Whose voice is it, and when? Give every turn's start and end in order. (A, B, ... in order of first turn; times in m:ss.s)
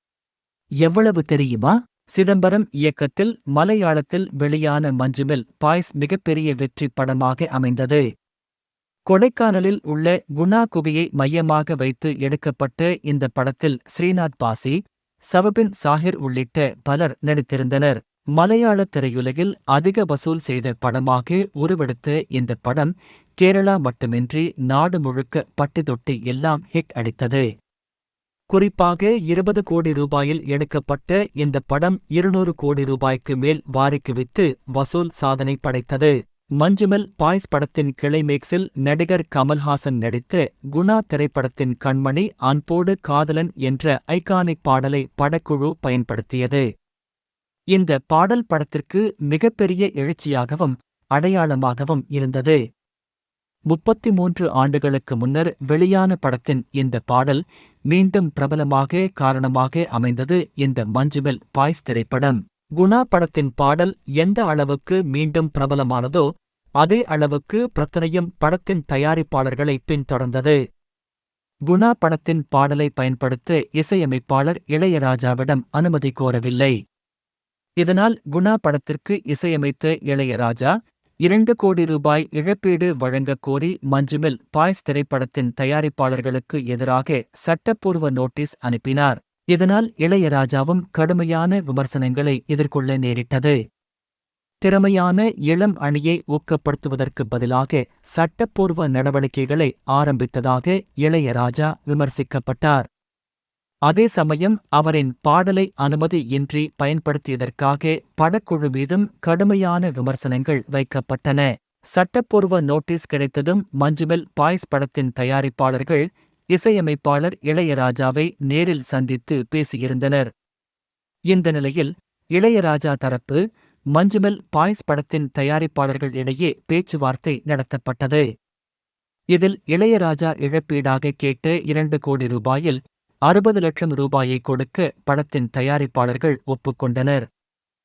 0:00.8-0:08.0 A
0:09.1-0:14.8 A
0:15.3-0:22.9 A
0:23.4-0:27.4 A
0:28.5-0:46.6 A
0:47.7-0:52.6 A
0:53.7-1:06.2 A
1:06.8-1:10.6 A
1:11.7-1:16.7 A
1:17.8-1:20.7 A
1:21.2-1:33.6 A
1:34.6-1:42.8 A
1:43.9-1:56.0 A
1:56.5-2:00.3 A
2:01.3-2:03.4 A
2:03.9-2:08.2 A
2:09.3-2:17.2 A